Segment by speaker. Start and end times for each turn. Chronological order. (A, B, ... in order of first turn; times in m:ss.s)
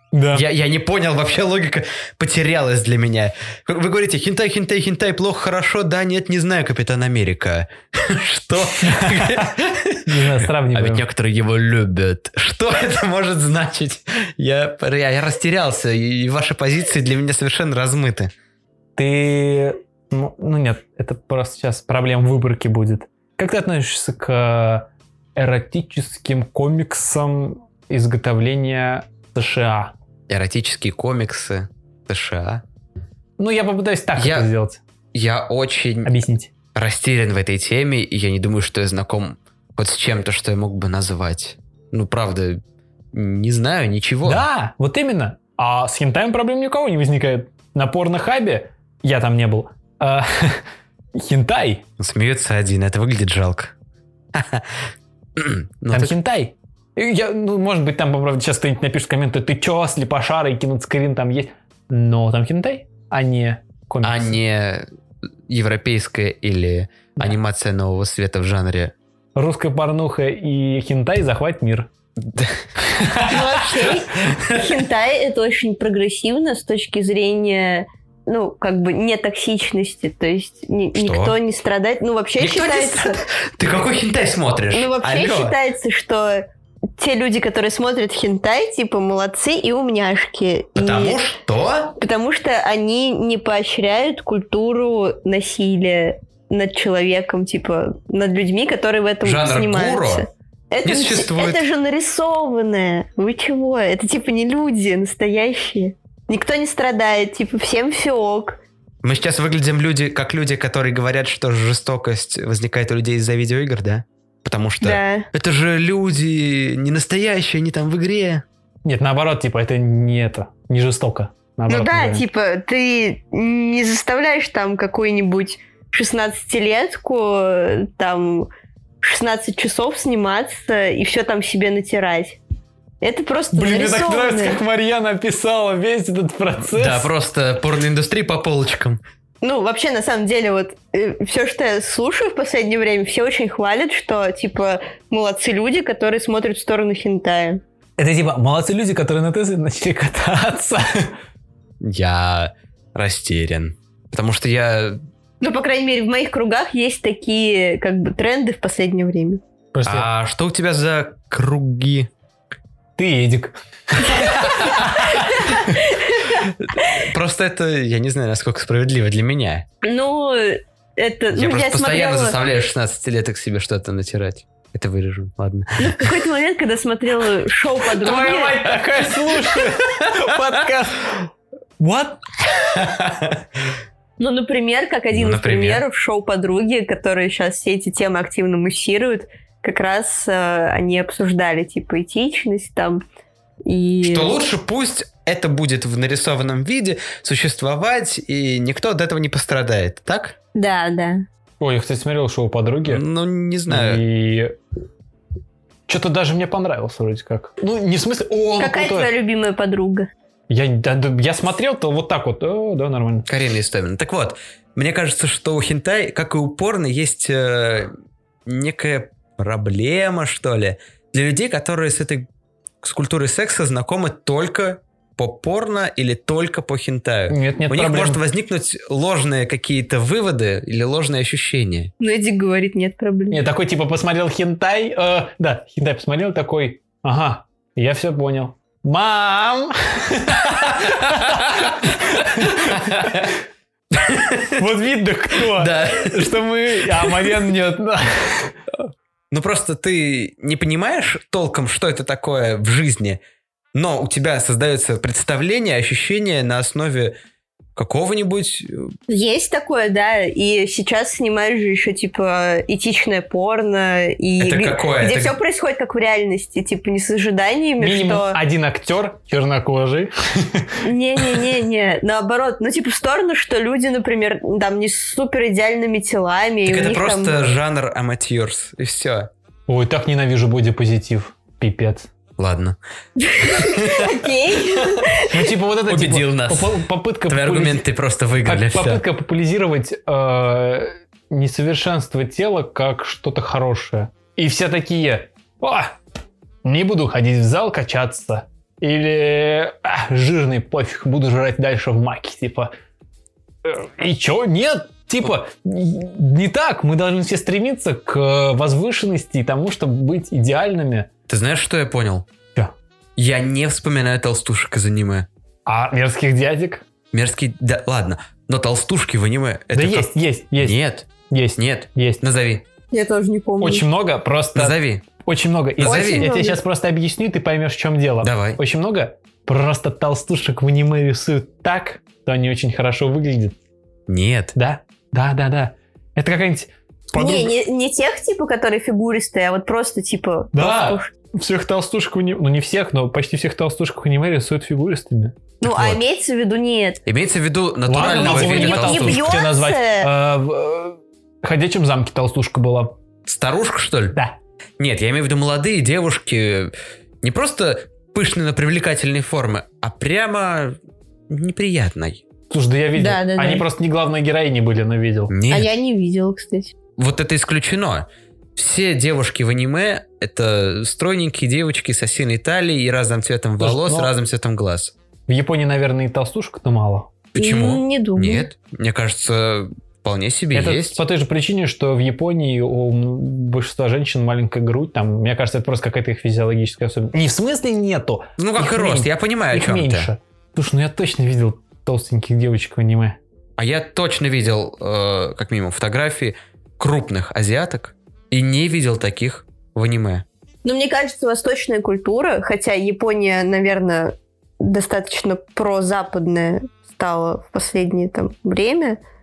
0:00.1-0:00.5 A
0:00.3-0:18.3 B
0:08.8-0:09.5 A
0:10.0-0:11.0 A
0:19.0-0:29.9 A
0:30.3-0:32.6 B
0:33.4-0:34.8 A
0:34.2-0:34.5 B
0:35.1-0:36.2 B
0:36.0-0:36.5 A
0:36.7-0:42.6 B
0:43.1-0:44.4 B
0:44.2-0:50.6 A
0:51.2-0:51.8 A
0:52.0-0:53.7 B
0:54.3-0:56.1 B
0:55.9-1:04.4 A
1:04.0-1:04.8 B
1:05.5-1:08.9 B
1:09.4-1:11.9 A
1:12.2-1:14.7 B
1:13.2-1:23.2 C
1:20.9-1:21.4 B
1:22.4-1:25.6 B
1:24.7-1:26.4 C
1:27.0-1:31.2 C
1:30.8-1:31.9 B
1:32.0-1:48.6 C
1:39.2-1:40.2 B
1:40.8-1:41.6 B
1:49.0-1:58.4 B
1:54.8-1:55.3 C
1:58.8-2:02.2 A
2:01.7-2:08.5 C
2:09.0-2:12.4 C
2:13.0-2:14.6 C
2:13.5-2:17.1 A
2:16.6-2:19.0 B
2:19.4-2:27.6 C
2:28.0-2:31.2 A
2:31.8-2:35.0 B
2:35.4-2:39.4 C
2:39.7-2:40.1 A
2:39.8-2:42.1 B
2:43.0-2:45.8 A
2:44.4-2:45.0 B
2:45.5-2:47.0 C
2:46.6-2:49.6 B
2:49.8-2:52.4 C
2:51.3-2:56.2 B
2:55.8-2:58.6 C
2:58.0-3:02.8 A
3:02.8-3:03.4 B
3:04.2-3:13.0 C
3:05.1-3:05.8 B
3:13.6-3:14.5 C
3:14.0-3:20.4 B
3:20.5-3:21.2 C
3:21.6-3:23.0 A
3:22.8-3:24.0 B
3:23.7-3:24.5 A
3:25.9-3:29.1 A
3:28.6-3:30.1 C
3:30.5-3:33.3 A
3:33.3-3:37.9 B
3:38.4-3:42.3 B
3:42.8-3:51.9 B
3:47.3-3:48.2 A
3:52.0-3:53.4 C
3:53.3-4:03.3 A
4:00.8-4:03.3 B
4:03.9-4:04.6 B
4:04.5-4:08.5 A
4:05.4-4:07.4 B
4:09.3-4:13.2 B
4:13.7-4:17.1 B
4:17.8-4:18.9 B
4:19.1-4:28.4 C
4:24.4-4:25.4 B
4:27.8-4:30.8 A
4:30.8-4:37.4 C
4:36.6-4:39.3 B
4:39.7-4:42.1 A
4:42.4-4:42.8 B
4:43.2-4:45.5 C
4:43.4-4:45.0 B
4:45.2-4:47.9 A
4:45.9-4:49.0 B
4:48.4-4:56.0 A
4:56.6-5:02.7 A
5:03.6-5:11.1 A
5:11.3-5:12.3 B
5:13.2-5:15.3 B
5:15.6-5:16.8 A
5:17.1-5:22.6 B
5:19.7-5:22.2 A
5:22.9-5:23.8 C
5:23.6-5:33.6 A
5:24.5-5:25.0 B
5:25.8-5:26.3 B
5:25.8-5:26.6 C
5:28.2-5:28.6 B
5:34.1-5:34.5 B
5:34.5-5:37.5 A
5:37.1-5:41.1 C
5:40.5-5:45.4 A
5:45.6-5:47.0 C
5:45.7-5:46.0 B
5:47.0-5:49.4 B
5:47.9-5:52.9 A
5:48.0-5:50.1 C
5:53.2-5:54.2 B
5:54.8-6:00.8 B
6:01.3-6:02.2 B
6:02.5-6:05.3 A
6:03.0-6:03.6 C
6:05.3-6:05.8 B
6:05.5-6:06.7 C
6:07.0-6:14.9 B
6:13.6-6:14.1 A
6:15.3-6:17.1 A
6:17.3-6:21.0 B
6:17.4-6:18.5 C
6:20.5-6:33.2 A
6:28.4-6:30.1 B
6:33.6-6:40.2 B
6:40.6-6:49.0 C